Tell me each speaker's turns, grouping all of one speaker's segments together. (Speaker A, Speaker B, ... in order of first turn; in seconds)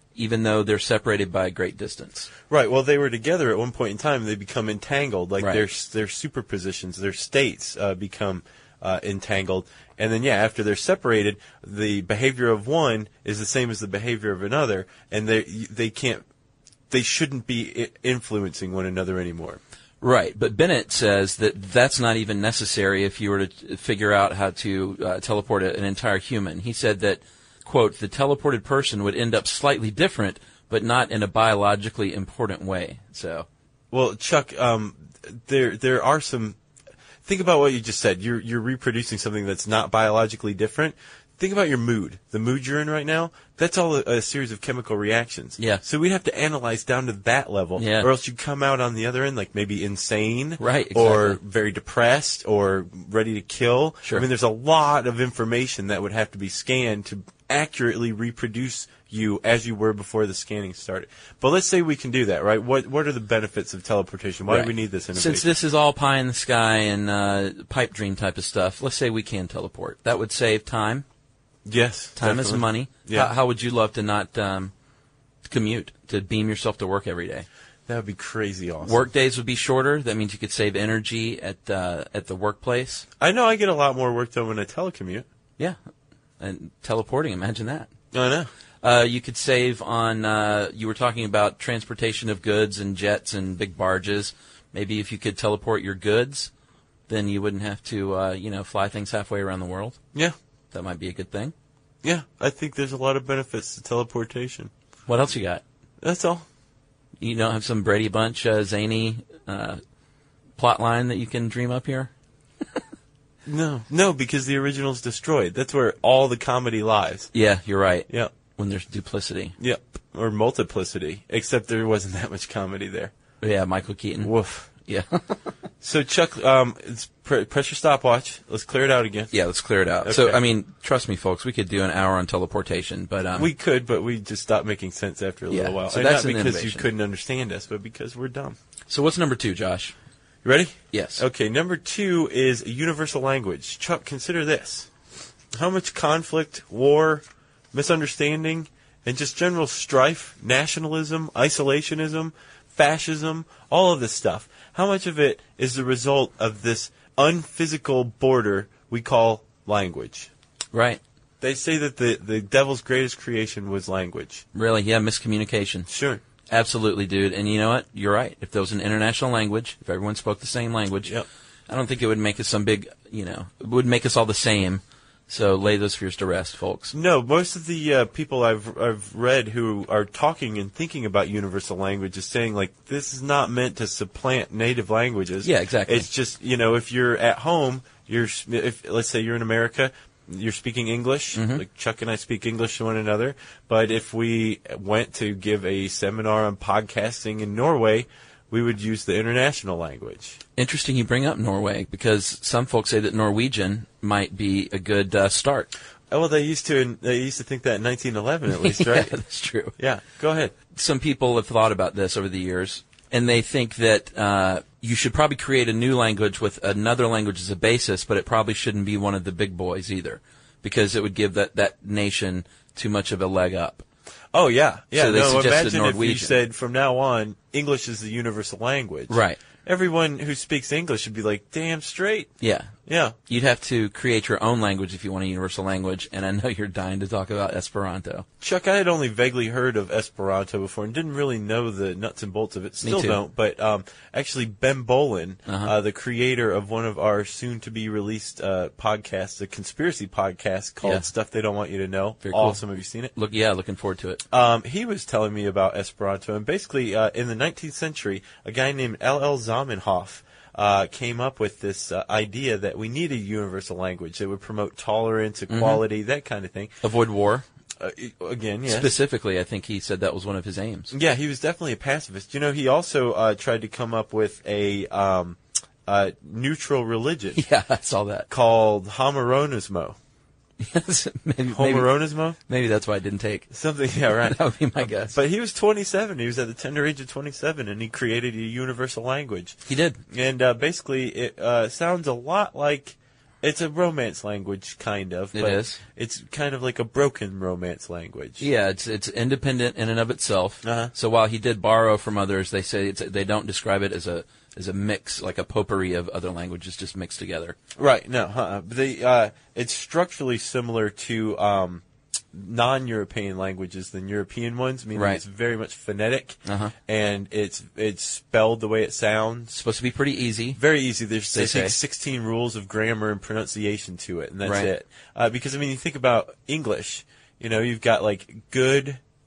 Speaker A: 0.1-2.3, 20.0-33.5, 45.6-45.8, 47.8-48.1, 50.6-51.4, 64.5-71.0, 72.2-74.7, 75.5-77.5, 78.8-83.0, 86.4-87.9, 88.8-96.5, 97.1-100.0, 100.7-101.5, 105.1-105.6, 107.2-109.8, 110.6-112.1, 117.3-119.5, 123.4-125.3, 129.3-133.5, 135.5-136.8, 138.9-139.9, 140.9-141.2, 160.7-161.0, 164.5-165.9, 166.5-171.1, 171.7-176.9, 185.4-186.1, 191.3-191.6, 200.6-205.7, 208.5-209.8, 210.7-223.8, 224.9-226.4, 229.1-229.4, 232.4-232.7, 233.3-238.2, 242.8-243.2, 245.4-245.7, 252.2-252.6, 253.1-254.2, 265.5-265.8, 266.8-267.4, 268.6-270.9, 277.3-278.3, 280.6-283.5, 284.0-285.2, 289.6-290.0, 295.3-295.8, 298.4-307.6, 314.9-315.2, 316.4-316.7, 319.5-320.6, 321.3-321.7, 324.4-324.7
Speaker B: 2.5-16.2, 16.9-19.6, 33.9-36.6, 37.2-65.5, 71.6-73.3, 77.9-79.1, 83.2-85.2, 88.1-88.5, 102.0-104.7, 106.0-106.5, 113.5-117.3, 119.6-123.1, 124.2-124.7, 125.8-129.3, 130.0-130.4, 133.3-138.6, 140.4-144.9, 145.5-160.3, 161.4-164.4, 165.9-166.2, 176.9-200.4, 206.1-209.1, 209.8-210.5, 224.3-232.3, 232.8-233.2, 238.4-253.1, 254.3-266.8, 267.8-268.9, 270.9-277.4, 278.3-280.0, 281.5-282.4, 283.5-289.6, 290.1-298.5, 300.6-300.9, 307.8-319.5, 320.6-329.0